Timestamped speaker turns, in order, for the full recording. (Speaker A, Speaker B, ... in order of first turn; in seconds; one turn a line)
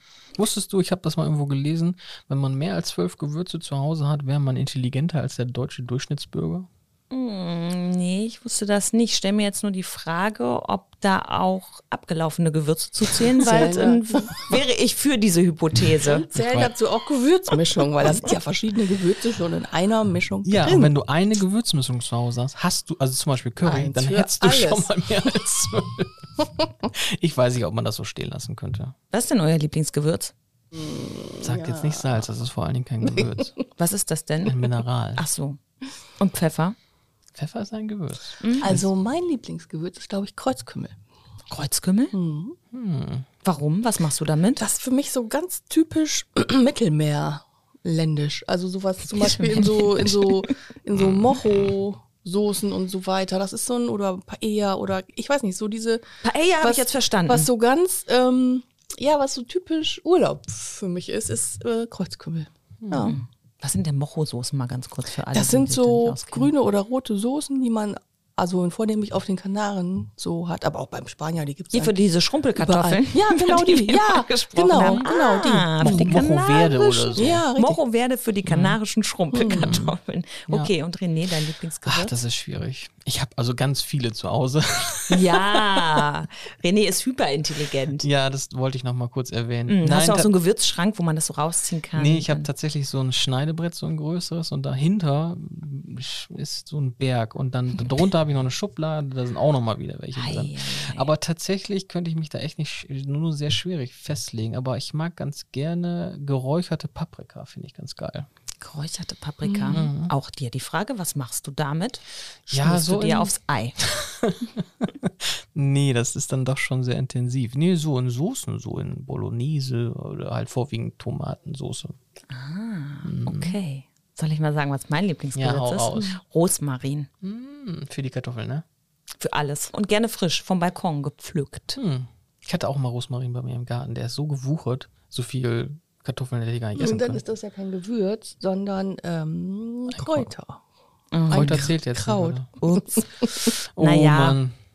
Speaker A: 0.4-6.7
Speaker B: 7.1-16.2
Speaker C: 13.4-14.3
Speaker C: 16.0-20.9
Speaker A: 16.3-16.7
Speaker A: 20.4-26.2
Speaker C: 23.6-24.9
Speaker A: 26.9-28.9
Speaker B: 29.1-30.3
Speaker C: 30.7-32.2
Speaker A: 31.4-33.5
Speaker B: 33.8-34.6
Speaker A: 34.4-35.2
Speaker B: 35.1-35.6
Speaker B: 36.2-36.8
Speaker A: 37.3-38.9
Speaker B: 38.4-38.7
Speaker C: 38.6-41.0
Speaker B: 41.5-42.1
Speaker C: 42.1-42.5
Speaker A: 42.7-43.3
Speaker B: 43.4-44.6
Speaker C: 44.6-56.0
Speaker B: 49.1-50.5
Speaker A: 50.9-51.7
Speaker B: 56.2-57.5
Speaker C: 56.6-63.1
Speaker B: 63.0-66.5
Speaker C: 65.3-72.0
Speaker B: 71.7-82.1
Speaker C: 72.5-76.2
Speaker A: 74.7-75.1
Speaker A: 75.8-77.4
Speaker C: 77.2-77.8
Speaker A: 78.4-78.8
Speaker C: 79.3-79.7
Speaker A: 79.5-80.0
Speaker A: 81.8-85.8
Speaker B: 85.1-88.0
Speaker A: 88.0-90.3
Speaker B: 89.7-92.5
Speaker A: 91.9-108.3
Speaker B: 100.1-101.1
Speaker B: 108.6-113.8
Speaker C: 109.4-109.8
Speaker A: 109.7-110.1
Speaker A: 112.5-122.0
Speaker B: 122.3-127.1
Speaker A: 123.0-123.6
Speaker A: 125.3-126.2
Speaker A: 127.2-128.6
Speaker B: 129.2-131.8
Speaker A: 131.7-137.2
Speaker C: 136.8-140.6
Speaker A: 139.9-140.3
Speaker B: 141.1-141.7
Speaker C: 141.3-143.0
Speaker A: 141.3-142.4
Speaker B: 142.6-144.4
Speaker A: 143.8-144.6